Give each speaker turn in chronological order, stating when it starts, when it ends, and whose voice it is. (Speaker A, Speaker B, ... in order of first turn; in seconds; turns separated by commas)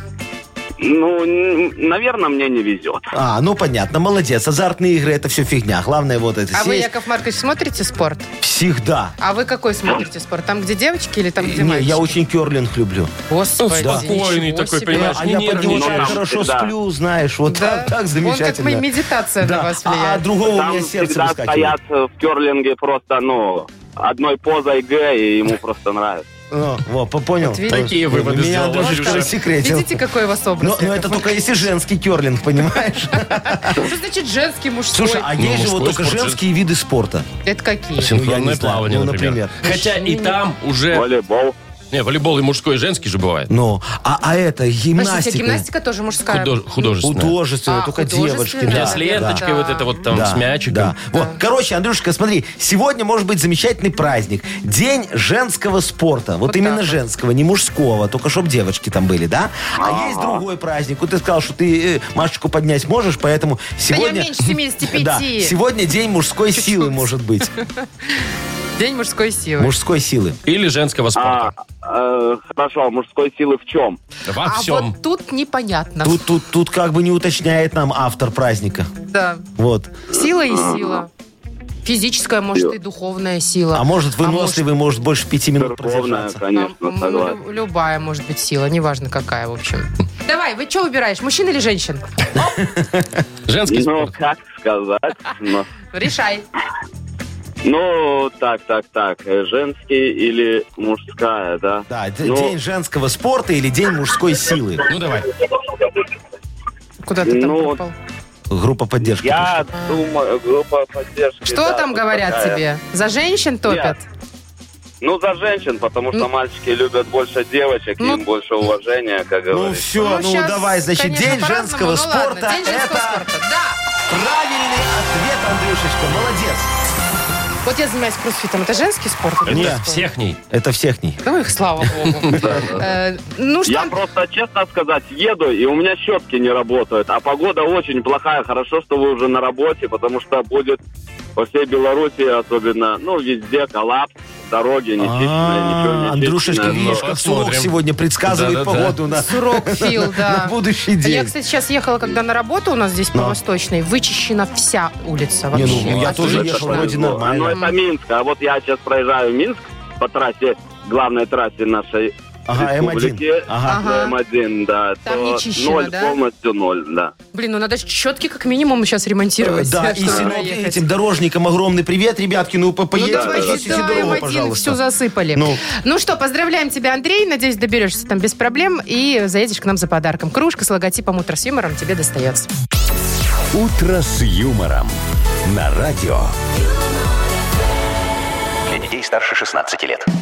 Speaker A: 0.8-3.0, Speaker B: 3.1-6.9, Speaker C: 6.5-8.3, Speaker B: 8.4-9.1, Speaker C: 9.2-12.1, Speaker B: 11.4-13.1, Speaker C: 13.3-15.2, Speaker D: 13.6-16.2, Speaker B: 13.8-14.2, Speaker B: 14.9-18.9, Speaker A: 15.6-16.7, Speaker C: 17.5-20.2, Speaker B: 19.4-21.8, Speaker A: 20.4-26.2, Speaker B: 26.5-30.0, Speaker C: 27.4-27.9, Speaker D: 27.7-29.3, Speaker C: 28.8-31.4, Speaker B: 30.6-33.8, Speaker C: 33.2-35.3, Speaker B: 34.9-37.3, Speaker D: 35.4-36.4, Speaker C: 37.4-38.1, Speaker D: 38.0-41.1, Speaker B: 38.0-40.3, Speaker A: 40.9-41.5, Speaker D: 41.9-43.5, Speaker B: 43.5-45.6, Speaker C: 45.0-46.9, Speaker D: 46.3-47.4, Speaker B: 47.0-49.4, Speaker C: 47.7-50.0, Speaker D: 48.6-50.9, Speaker B: 50.1-67.5, Speaker C: 56.5-57.0, Speaker A: 59.8-60.4, Speaker C: 63.9-65.5, Speaker C: 66.5-68.2, Speaker C: 68.8-69.7, Speaker B: 69.6-70.4, Speaker D: 70.5-71.5, Speaker A: 71.1-74.0, Speaker D: 74.3-74.9, Speaker C: 74.4-76.2, Speaker B: 76.0-78.9, Speaker C: 79.1-79.5, Speaker B: 79.6-79.9, Speaker C: 80.1-81.1, Speaker A: 80.5-81.0, Speaker C: 81.8-84.6, Speaker B: 83.7-86.4, Speaker A: 85.6-87.4, Speaker C: 86.5-92.5, Speaker B: 92.3-93.1, Speaker D: 93.5-94.1, Speaker A: 93.7-95.7, Speaker C: 95.9-96.4, Speaker A: 97.6-102.5, Speaker B: 101.9-104.8, Speaker D: 104.9-105.3, Speaker A: 105.4-106.1, Speaker C: 107.0-107.9, Speaker A: 107.2-107.8, Speaker B: 108.5-109.6, Speaker A: 109.2-112.6, Speaker C: 111.4-114.0, Speaker A: 113.7-113.9, Speaker A: 115.0-119.9, Speaker B: 119.5-123.3, Speaker C: 120.0-123.8, Speaker B: 124.1-126.7, Speaker C: 127.6-130.1, Speaker D: 129.4-130.4, Speaker B: 129.5-129.8, Speaker B: 130.5-131.2, Speaker C: 131.2-133.9, Speaker A: 132.3-132.9, Speaker A: 133.6-140.8, Speaker A: 141.3-147.0, Speaker B: 145.0-151.3, Speaker D: 146.6-147.7, Speaker D: 148.2-149.0, Speaker C: 149.1-156.9, Speaker B: 155.5-157.6, Speaker D: 155.5-156.7, Speaker A: 156.0-167.1, Speaker C: 157.5-157.7, Speaker B: 162.5-163.8, Speaker C: 163.6-164.2, Speaker C: 165.0-166.2, Speaker C: 167.3-170.8, Speaker B: 169.4-174.8, Speaker C: 172.9-182.5, Speaker A: 173.1-174.1, Speaker B: 175.3-175.6, Speaker E: 183.5-186.3, Speaker E: 188.7-190.1